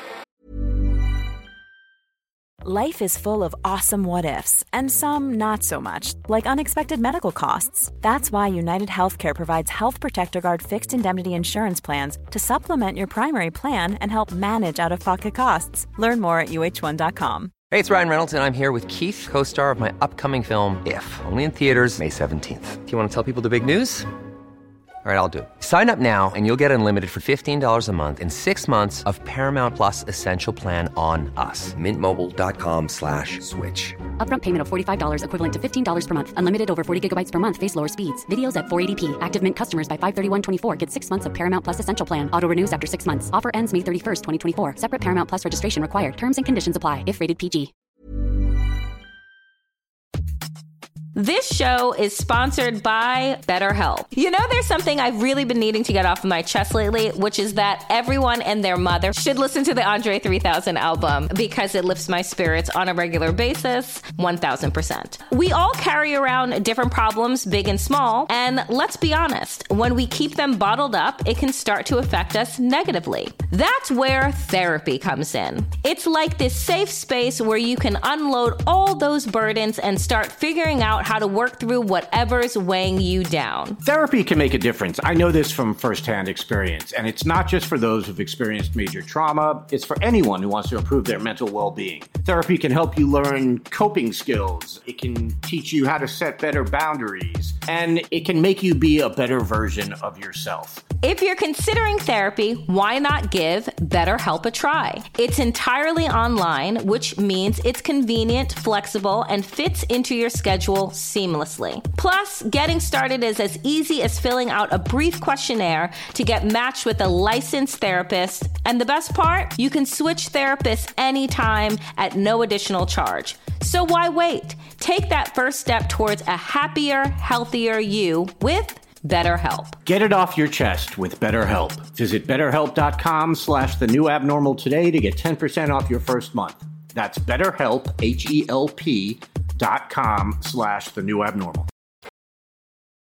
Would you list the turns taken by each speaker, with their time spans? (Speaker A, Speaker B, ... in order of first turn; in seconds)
Speaker A: 2.6-17.5
Speaker B: 17.7-24.1, 25.0-34.0
Speaker C: 34.2-47.7
Speaker D: 51.1-83.8, 101.0-129.8
Speaker E: 83.8-100.8, 129.9-141.7